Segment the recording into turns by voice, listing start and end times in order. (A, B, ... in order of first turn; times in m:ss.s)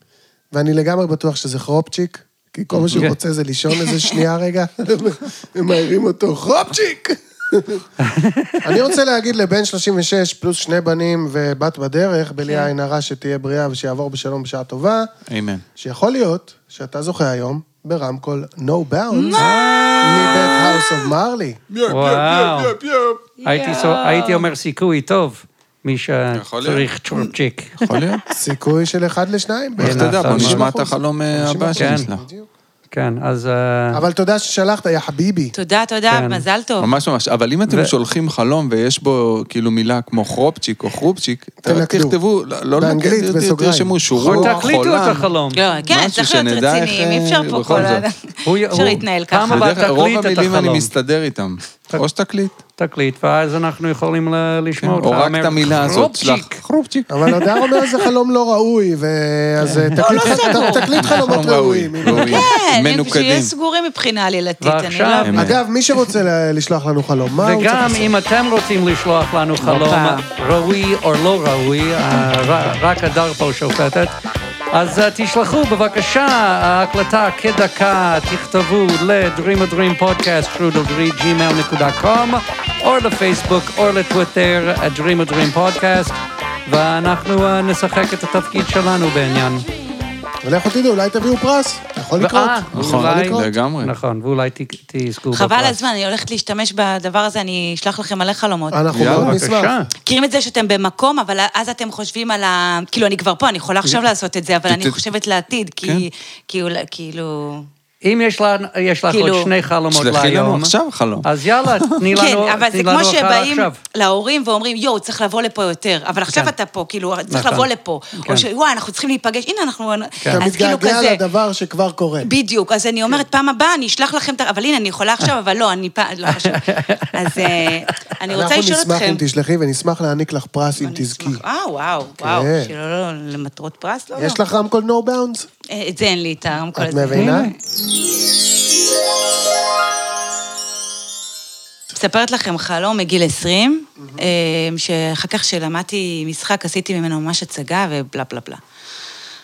0:00.5-0:07.8 A
0:02.7-0:03.1 B
0:08.1-0:08.5 C
0:08.6-0:15.1 A
0:12.4-0:12.7 D
0:15.3-0:15.6 B
0:15.8-0:19.4 A
0:19.1-0:19.6 D
0:19.4-0:20.8 B
0:20.0-0:21.6 A
0:21.7-0:23.2 B
0:21.9-0:22.8 C
0:23.4-0:24.5 D
0:23.4-0:27.7 C
0:26.3-0:26.9 B
0:27.8-0:28.2 B
0:28.3-0:32.5 A
0:29.8-0:30.7 C
0:29.8-0:32.2 B
0:31.8-0:32.1 C
0:32.9-0:34.0 C
0:33.9-0:35.6 A
0:35.5-0:36.9 D
0:36.1-0:36.4 C
0:36.8-0:45.3 B
0:41.6-0:42.2 A
0:42.8-0:44.7 A
0:44.2-0:45.6 C
0:45.5-0:49.7 D
0:45.9-0:48.1 B
0:48.4-0:50.9 C
0:49.5-0:52.6 B
0:52.8-0:56.6 C
0:54.8-0:57.1 B
0:57.1-1:02.4 A
0:59.6-1:00.7 C
1:00.0-1:01.3 D
1:01.0-1:03.5 B
1:02.1-1:05.4 D
1:04.6-1:05.5 C
1:05.2-1:05.6 B
1:05.4-1:08.1 A
1:07.4-1:14.1 C
1:09.6-1:10.2 D
1:14.7-1:29.7 C
1:30.4-1:33.5 A
1:32.2-1:35.8 C
1:32.7-1:33.9 B
1:35.3-1:39.0 D
1:38.7-1:39.8 A
1:38.9-1:39.4 B
1:39.1-1:39.9 C
1:40.0-1:47.7 D
1:44.7-1:45.0 B
1:48.0-1:50.7 C
1:49.1-1:49.5 D
1:49.9-1:52.0 B
1:51.2-1:53.8 C
1:52.1-2:01.2 D
1:57.3-1:58.5 C
2:00.4-2:02.3 A
2:02.2-2:09.2 D
2:06.3-2:07.9 C
2:08.3-2:11.4 A
2:10.8-2:14.4 D
2:12.2-2:12.7 A
2:14.2-2:15.5 A
2:15.7-2:17.6 D
2:16.8-2:17.5 A
2:17.1-2:17.5 C
2:21.9-2:28.6 D